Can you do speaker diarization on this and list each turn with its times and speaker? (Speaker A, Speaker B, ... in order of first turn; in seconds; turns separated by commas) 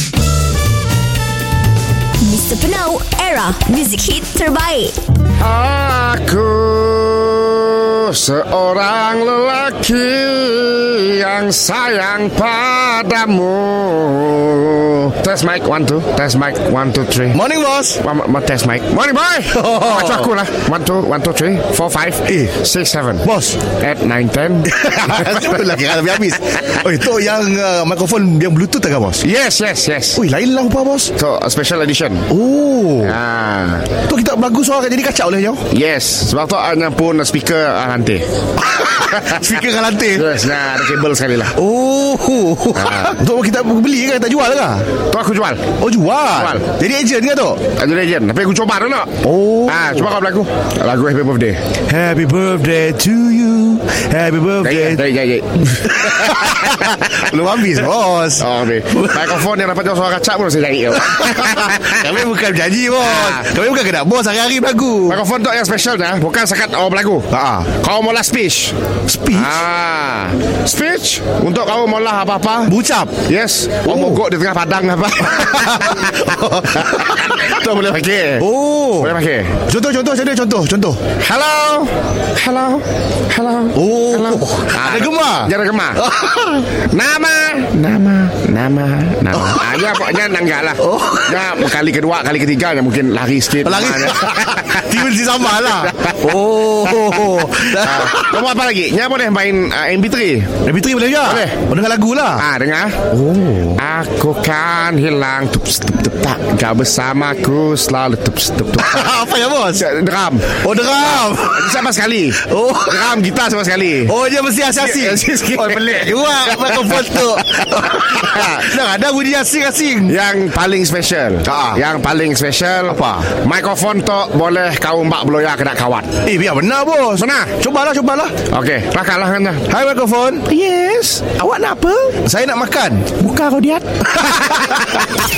Speaker A: 2.2-5.0, Speaker B: 5.4-17.4, Speaker C: 17.3-18.0, Speaker B: 18.0-23.2, Speaker C: 19.5-20.3, Speaker C: 22.3-22.5, Speaker C: 23.2-23.6, Speaker B: 23.8-25.8, Speaker C: 24.7-29.2, Speaker B: 29.2-30.2, Speaker C: 30.1-31.1, Speaker B: 31.1-32.2, Speaker C: 32.3-33.1, Speaker B: 33.0-33.9, Speaker C: 34.1-35.6, Speaker B: 35.7-38.3, Speaker B: 38.8-39.5, Speaker C: 38.8-40.3, Speaker B: 40.1-41.5, Speaker C: 41.5-44.9, Speaker B: 42.7-43.2, Speaker B: 45.1-45.6, Speaker C: 45.8-47.6, Speaker B: 46.4-46.6, Speaker B: 47.8-51.6, Speaker C: 49.2-50.1, Speaker C: 51.9-55.0, Speaker B: 54.6-57.1, Speaker C: 56.0-59.4, Speaker B: 58.4-62.1, Speaker C: 61.1-65.2, Speaker B: 63.0-63.5, Speaker B: 65.1-68.7, Speaker C: 67.3-67.7, Speaker C: 69.1-69.6, Speaker B: 69.3-72.7, Speaker C: 72.7-73.2, Speaker B: 73.2-78.5, Speaker C: 73.8-74.2, Speaker C: 75.3-77.3, Speaker C: 78.4-81.0, Speaker B: 79.0-79.6, Speaker B: 81.2-86.0, Speaker C: 83.7-86.6, Speaker B: 86.9-94.9, Speaker C: 90.8-91.4, Speaker C: 93.6-98.3, Speaker B: 95.9-96.3, Speaker B: 97.3-100.5, Speaker C: 100.6-102.5, Speaker B: 101.2-101.5, Speaker B: 102.4-109.1, Speaker C: 108.8-109.8, Speaker B: 109.8-114.1, Speaker C: 110.5-111.8, Speaker C: 112.4-113.2, Speaker C: 114.1-120.2, Speaker B: 114.8-118.7, Speaker B: 120.1-126.1, Speaker C: 121.4-121.8, Speaker C: 122.9-123.3, Speaker C: 126.2-128.3, Speaker B: 127.2-127.5, Speaker B: 128.5-129.7, Speaker C: 129.7-130.5, Speaker B: 130.5-132.2, Speaker C: 132.2-133.2, Speaker B: 133.2-135.1